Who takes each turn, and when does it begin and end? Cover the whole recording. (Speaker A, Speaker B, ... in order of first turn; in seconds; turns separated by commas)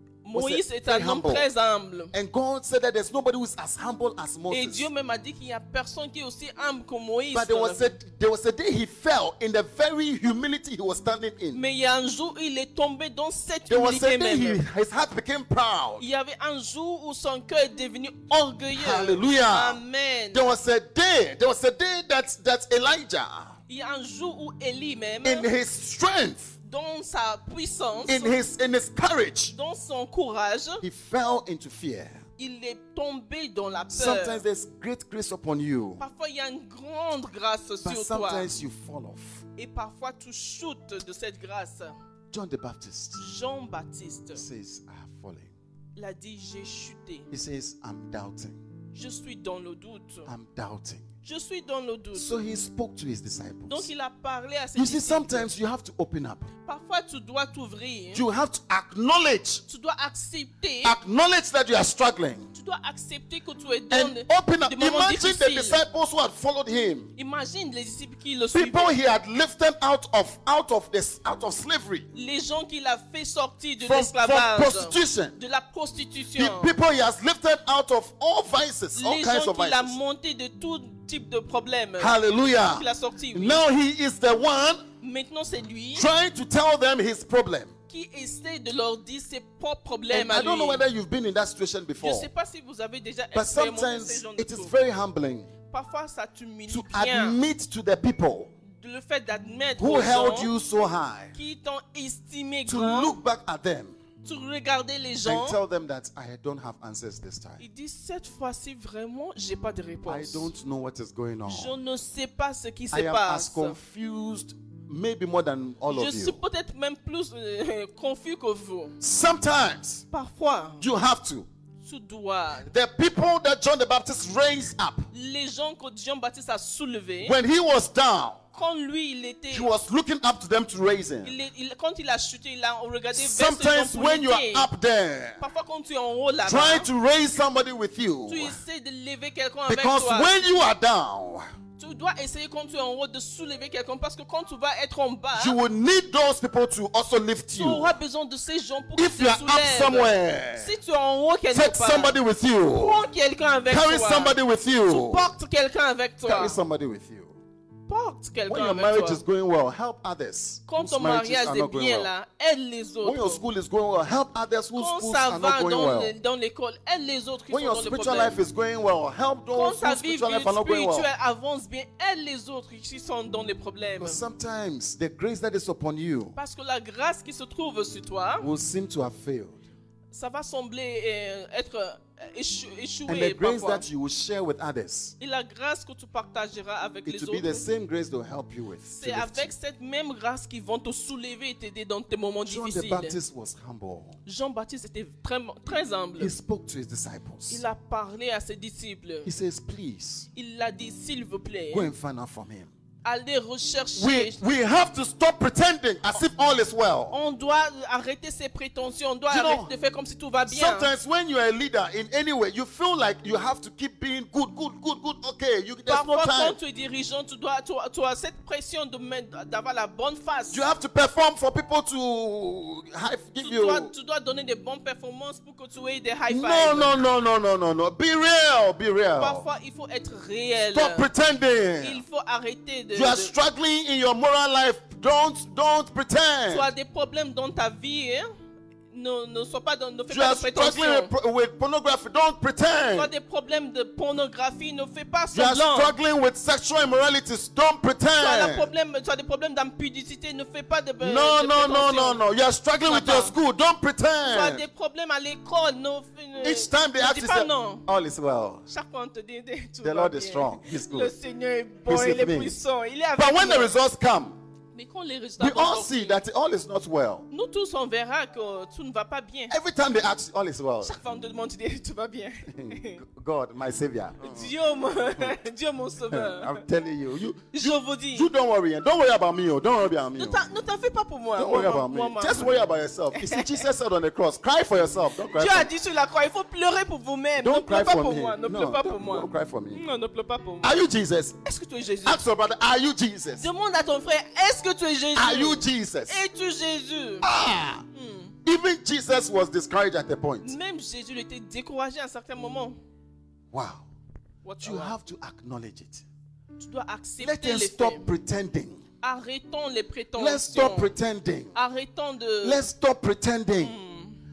Speaker A: 0.2-2.1, Speaker B: 0.3-1.5, Speaker B: 2.1-4.9, Speaker A: 4.5-8.0, Speaker B: 7.3-11.6, Speaker A: 11.5-14.6, Speaker B: 13.7-16.1, Speaker A: 16.0-20.5, Speaker B: 18.7-19.8, Speaker B: 20.3-23.6, Speaker A: 23.7-25.5, Speaker B: 25.2-26.6, Speaker A: 26.6-28.4, Speaker B: 28.1-29.6, Speaker A: 29.5-30.8, Speaker B: 30.8-32.2, Speaker A: 32.4-34.4, Speaker B: 33.9-36.0, Speaker A: 36.0-38.5, Speaker B: 37.8-39.5, Speaker A: 39.6-42.0, Speaker B: 42.3-43.2, Speaker A: 43.2-44.4, Speaker B: 44.4-45.5, Speaker A: 46.0-47.3, Speaker B: 47.3-48.6, Speaker A: 48.9-50.3, Speaker B: 50.3-51.1, Speaker A: 51.2-52.4, Speaker B: 52.1-53.9, Speaker A: 53.7-55.5, Speaker B: 54.8-56.5, Speaker A: 56.6-58.2, Speaker B: 58.1-59.6, Speaker A: 59.7-61.0, Speaker B: 60.8-62.5, Speaker A: 62.5-65.8, Speaker B: 63.9-67.1, Speaker A: 67.2-69.0, Speaker B: 68.5-72.1, Speaker A: 72.1-76.7, Speaker B: 73.8-75.4, Speaker B: 76.3-80.0, Speaker A: 79.0-83.6, Speaker B: 82.0-84.8, Speaker A: 85.0-86.1, Speaker B: 86.0-87.7, Speaker A: 87.9-90.8, Speaker B: 90.1-92.3, Speaker A: 92.0-94.7, Speaker B: 93.3-95.5, Speaker A: 95.7-97.4, Speaker B: 96.7-98.5, Speaker A: 98.7-100.5, Speaker B: 99.8-101.4, Speaker A: 101.3-103.2, Speaker B: 102.7-104.0, Speaker A: 104.2-105.6, Speaker B: 105.2-107.6, Speaker A: 107.6-110.5, Speaker B: 110.1-111.8, Speaker A: 111.5-113.8, Speaker B: 112.9-116.4, Speaker A: 115.9-119.0, Speaker B: 119.0-120.0, Speaker A: 120.1-120.9, Speaker B: 120.8-121.5, Speaker A: 121.8-122.7, Speaker B: 122.7-125.1, Speaker A: 125.1-127.4, Speaker B: 127.2-128.4, Speaker A: 128.5-129.7, Speaker B: 129.5-131.3, Speaker A: 131.2-134.7, Speaker B: 133.1-135.4, Speaker A: 135.4-136.9, Speaker B: 136.4-138.6, Speaker A: 138.3-140.4, Speaker B: 139.7-141.4, Speaker A: 141.8-145.6, Speaker B: 145.3-147.9, Speaker A: 147.6-152.2, Speaker B: 149.0-150.8, Speaker B: 151.5-153.1, Speaker A: 152.8-156.6, Speaker B: 153.7-155.3, Speaker B: 156.3-157.4, Speaker A: 157.9-159.2, Speaker B: 158.5-162.1, Speaker A: 160.7-163.4, Speaker B: 163.0-166.2, Speaker A: 164.8-168.4, Speaker B: 167.5-171.1, Speaker A: 169.5-174.2, Speaker B: 174.0-176.4, Speaker A: 176.4-178.5, Speaker B: 178.4-179.6, Speaker A: 180.1-183.8, Speaker B: 183.1-185.2, Speaker A: 185.2-187.6, Speaker B: 187.1-189.5, Speaker A: 188.9-193.2, Speaker B: 192.5-194.2, Speaker A: 194.3-196.3, Speaker B: 196.2-197.6, Speaker A: 197.5-199.3, Speaker B: 199.3-200.3, Speaker A: 200.3-201.9, Speaker B: 201.7-202.7, Speaker A: 203.0-204.4, Speaker B: 204.0-207.2, Speaker A: 207.1-210.9, Speaker B: 209.3-209.7, Speaker B: 210.5-216.6, Speaker A: 215.9-220.6, Speaker B: 220.5-223.9, Speaker A: 223.4-227.0, Speaker B: 226.3-229.5, Speaker A: 229.2-231.1, Speaker B: 230.7-232.0, Speaker A: 231.8-233.3, Speaker B: 232.9-236.7, Speaker A: 236.5-238.3, Speaker A: 238.9-241.1, Speaker B: 240.1-243.1, Speaker A: 242.9-245.9, Speaker B: 245.3-248.7, Speaker A: 248.2-252.2, Speaker B: 251.0-254.7, Speaker A: 252.8-253.3, Speaker A: 254.3-257.9, Speaker B: 256.4-258.6, Speaker A: 258.7-263.7, Speaker B: 259.8-261.1, Speaker B: 261.9-262.6, Speaker B: 263.2-264.4, Speaker A: 264.7-266.2, Speaker B: 265.4-267.3, Speaker A: 267.3-269.6, Speaker B: 269.5-271.0, Speaker A: 270.8-273.0, Speaker B: 272.5-274.5, Speaker A: 274.2-276.6, Speaker B: 276.1-280.4, Speaker A: 277.5-278.3, Speaker A: 280.2-282.6, Speaker B: 281.4-285.7, Speaker A: 283.1-283.6, Speaker A: 285.3-290.8, Speaker B: 287.4-289.8, Speaker B: 290.6-291.4, Speaker A: 291.4-292.2, Speaker B: 292.1-293.5, Speaker A: 293.4-297.3, Speaker B: 295.1-296.2, Speaker B: 297.2-297.8, Speaker A: 297.9-298.4, Speaker B: 298.4-300.6, Speaker A: 300.4-302.8, Speaker B: 303.5-303.9, Speaker A: 304.4-305.0, Speaker B: 304.6-306.1, Speaker A: 306.6-308.1, Speaker B: 307.2-308.8, Speaker A: 309.0-310.9, Speaker B: 310.1-311.5, Speaker A: 311.6-312.6, Speaker B: 312.4-313.8, Speaker A: 313.6-314.2